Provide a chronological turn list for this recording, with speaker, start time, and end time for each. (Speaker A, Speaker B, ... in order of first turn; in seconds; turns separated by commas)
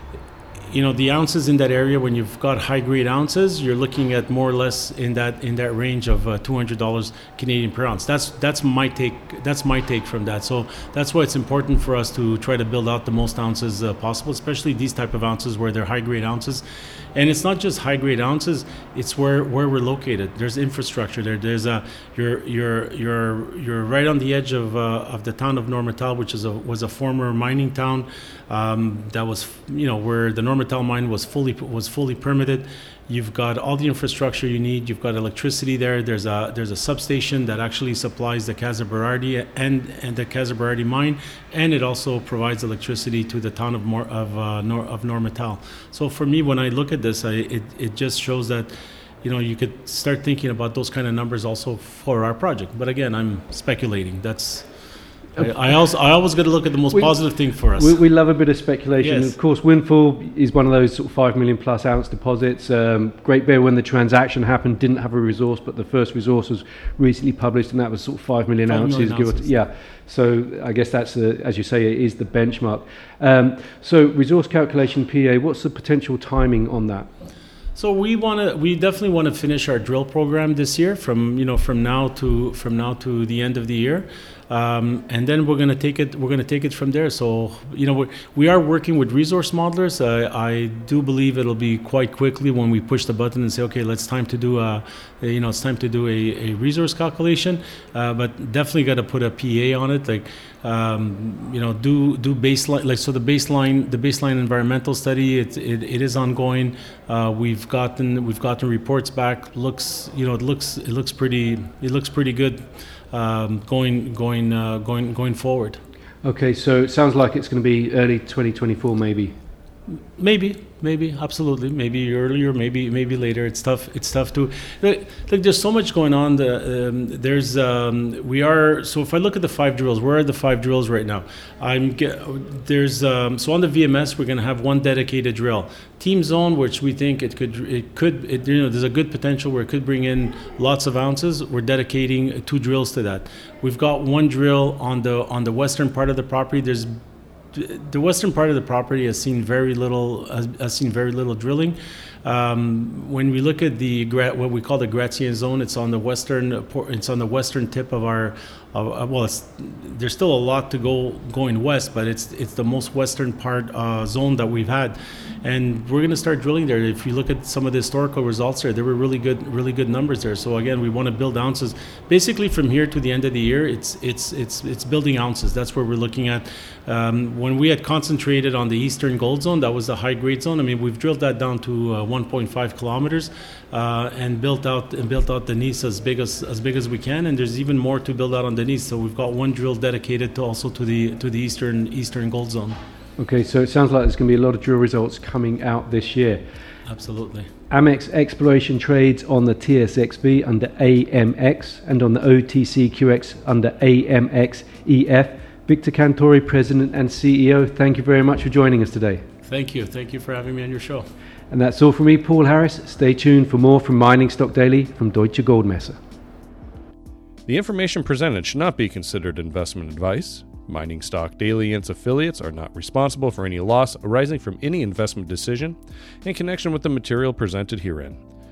Speaker A: 0.7-16.6, Speaker A: 17.1-48.7, Speaker A: 49.2-54.7, Speaker B: 55.4-55.7, Speaker A: 55.4-58.0, Speaker B: 56.9-77.1, Speaker A: 59.0-59.4, Speaker A: 68.7-69.6, Speaker A: 77.7-115.8, Speaker B: 116.2-119.3, Speaker A: 120.2-146.9, Speaker A: 147.5-192.8, Speaker B: 193.2-196.4, Speaker A: 196.8-197.5, Speaker B: 197.7-209.2, Speaker A: 209.4-211.1, Speaker B: 211.5-216.0, Speaker C: 217.4-228.2